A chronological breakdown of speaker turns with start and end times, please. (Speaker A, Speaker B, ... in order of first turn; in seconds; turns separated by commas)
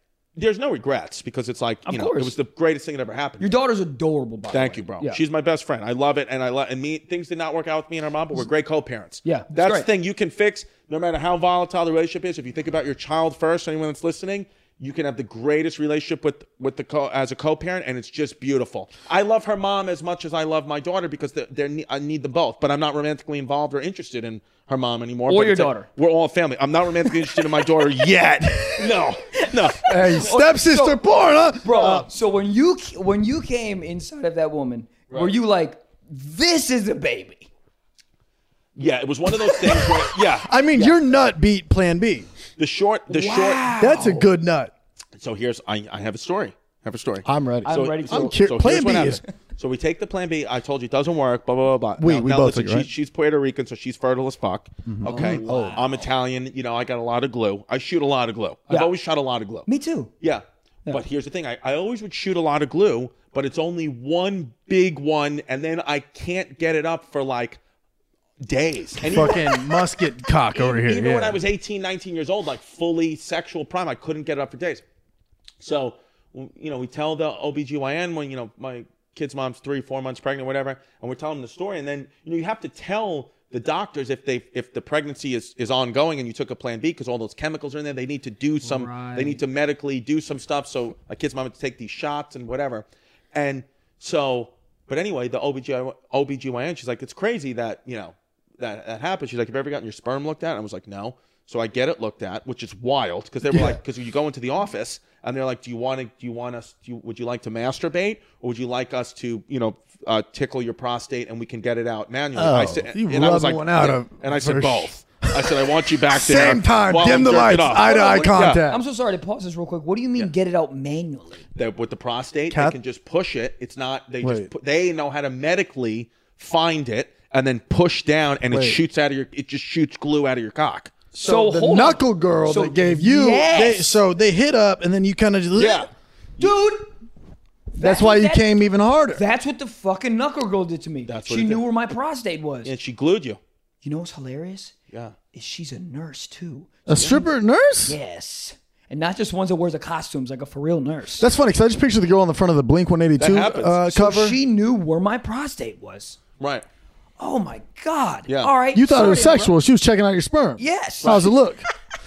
Speaker A: 0.4-3.5, Speaker B: 1.9-2.3, Speaker B: 3.4-5.2, Speaker A: 4.5-30.3, Speaker B: 9.2-9.9, Speaker B: 25.3-25.9, Speaker B: 27.2-27.8, Speaker B: 28.6-29.0, Speaker C: 29.8-32.1, Speaker B: 29.8-37.5, Speaker A: 38.8-40.9, Speaker B: 39.6-40.0, Speaker C: 40.4-42.3, Speaker A: 42.6-43.7, Speaker B: 43.1-44.3, Speaker C: 43.8-44.7, Speaker A: 45.2-59.7, Speaker C: 47.2-49.2, Speaker B: 47.6-48.4, Speaker C: 52.0-52.9, Speaker C: 54.9-55.8, Speaker B: 55.0-56.1, Speaker B: 59.7-60.1, Speaker A: 60.2-67.6, Speaker A: 68.4-69.6, Speaker C: 69.0-71.4, Speaker A: 70.5-74.8, Speaker A: 75.6-118.6, Speaker B: 88.6-89.4, Speaker C: 103.5-103.8, Speaker C: 112.4-118.8, Speaker B: 117.7-121.4, Speaker A: 121.5-131.1, Speaker C: 122.5-122.8, Speaker C: 124.2-124.5, Speaker C: 128.5-128.8, Speaker B: 131.2-133.9, Speaker C: 131.2-135.9, Speaker A: 135.6-136.5, Speaker B: 136.4-136.9, Speaker B: 137.7-138.5, Speaker C: 137.8-139.2, Speaker B: 139.1-142.7, Speaker A: 141.1-141.6, Speaker A: 142.6-143.4, Speaker B: 143.8-144.8, Speaker B: 145.3-147.2, Speaker C: 146.9-148.0, Speaker A: 146.9-147.2, Speaker B: 147.9-151.3, Speaker C: 151.2-154.4, Speaker A: 153.2-154.0, Speaker B: 153.9-156.2, Speaker A: 156.4-156.7, Speaker B: 157.2-159.5, Speaker A: 158.3-158.5, Speaker C: 158.7-161.6, Speaker B: 160.6-161.4, Speaker A: 161.0-161.3